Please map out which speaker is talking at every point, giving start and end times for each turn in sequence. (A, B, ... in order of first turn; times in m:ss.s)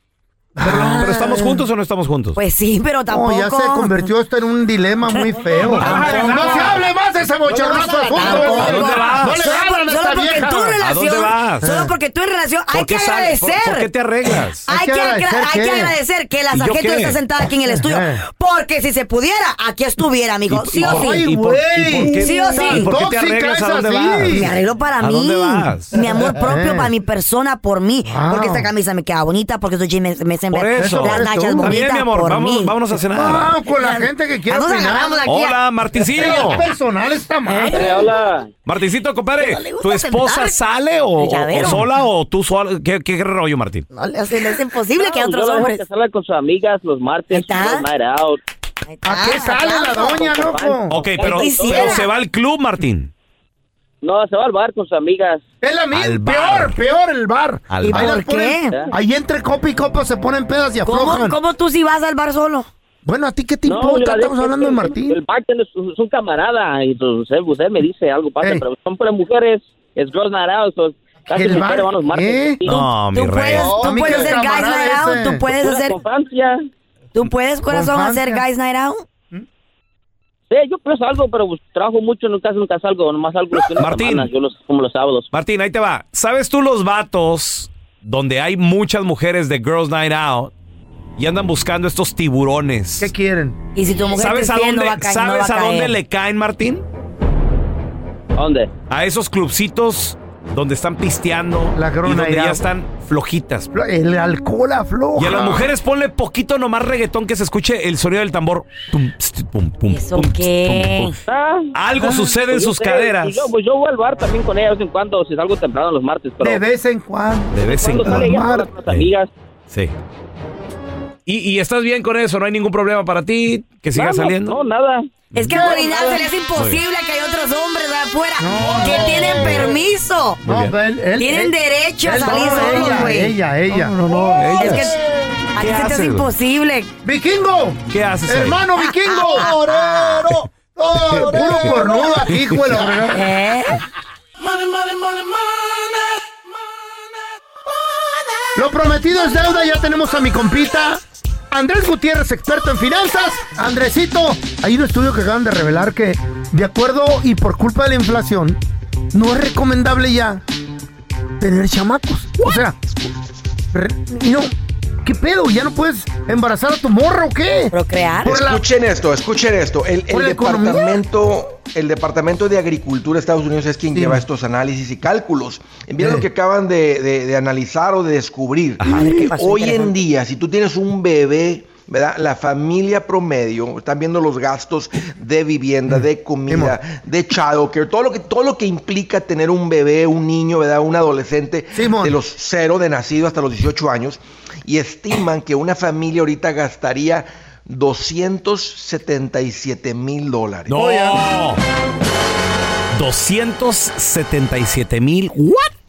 0:00.6-0:01.4 A
0:00.6-0:02.4 B
0:00.6-0:01.5 C
0:02.3-0:04.1 C
0:03.1-0:10.8 A
0:05.1-0:06.7 C
0:05.6-0:06.8 B
0:07.5-0:13.9 C
0:08.1-0:09.5 B
0:10.8-0:11.6 B
0:11.6-0:11.9 A
0:12.7-0:14.6 B
0:14.6-0:21.2 C
0:14.7-0:15.9 A
0:16.5-0:17.2 B
0:17.7-0:18.2 A
0:20.5-0:25.9 B
0:20.8-0:24.5 A
0:22.0-0:22.9 C
0:24.3-0:32.7 C
0:25.9-0:26.9 A
0:28.1-0:28.7 A
0:30.5-0:33.5 B
0:30.8-0:31.7 A
0:33.1-0:35.2 A
0:33.7-0:35.6 C
0:35.2-0:36.6 B
0:36.1-0:38.1 A
0:37.5-0:38.1 C
0:37.6-0:38.5 D
0:38.6-0:43.8 B
0:39.4-0:40.6 C
0:41.2-0:41.8 C
0:43.9-0:45.8 C
0:45.0-0:48.4 D
0:47.3-0:47.9 C
0:48.8-0:50.5 C
0:49.0-0:51.0 A
0:50.0-0:52.0 D
0:50.9-0:53.1 B
0:51.2-0:52.1 C
0:54.0-0:55.4 D
0:55.6-1:01.4 A
0:55.9-0:56.7 B
0:57.7-0:58.2 B
0:57.8-0:58.8 C
1:00.8-1:02.7 C
1:03.0-1:05.2 A
1:03.6-1:12.8 D
1:08.4-1:08.6 A
1:11.3-1:12.6 A
1:12.6-1:13.8 B
1:13.1-1:16.0 C
1:13.6-1:15.5 A
1:15.5-1:16.6 D
1:17.1-1:19.0 C
1:17.7-1:18.4 A
1:20.5-1:25.3 D
1:23.8-1:24.3 B
1:25.3-1:30.5 B
1:31.2-1:33.1 B
1:33.0-1:33.6 A
1:33.7-1:35.9 C
1:34.1-1:36.8 B
1:38.4-1:38.7 D
1:38.9-1:43.7 B
1:41.7-1:42.6 A
1:43.7-1:45.7 A
1:45.2-1:51.1 B
1:49.9-1:51.2 C
1:51.3-1:51.7 D
1:51.7-1:53.5 B
1:52.4-1:56.6 D
1:56.4-1:58.7 A
1:57.5-1:58.4 B
1:57.6-1:59.3 D
2:01.2-2:04.6 B
2:04.0-2:05.1 D
2:05.3-2:05.8 B
2:05.3-2:10.4 C
2:05.6-2:06.2 A
2:06.6-2:06.8 B
2:08.4-2:09.7 A
2:09.2-2:09.6 B
2:10.4-2:10.7 B
2:10.5-2:15.2 A
2:11.2-2:13.3 C
2:12.3-2:12.9 B
2:14.4-2:14.9 B
2:14.5-2:15.0 C
2:15.5-2:16.9 C
2:15.6-2:16.3 B
2:17.0-2:23.3 A
2:17.9-2:18.6 B
2:18.8-2:20.3 C
2:20.9-2:21.8 B
2:21.4-2:21.7 C
2:22.3-2:22.8 B
2:23.1-2:23.8 C
2:28.5-2:38.6 A
2:39.1-2:40.4 A
2:41.4-2:42.8 A
2:43.7-2:44.5 A
2:45.0-2:47.7 A
2:47.7-2:48.4 C
2:48.2-3:20.7 E
2:48.2-2:48.6 A
2:50.1-2:51.0 A
2:53.9-2:54.2 A
2:56.0-2:56.2 A
2:58.8-2:59.1 B
2:58.8-2:59.9 C
3:05.9-3:06.7 A
3:11.7-3:12.1 A
3:20.7-3:21.6 B
3:20.8-3:21.2 A
3:22.9-3:25.7 B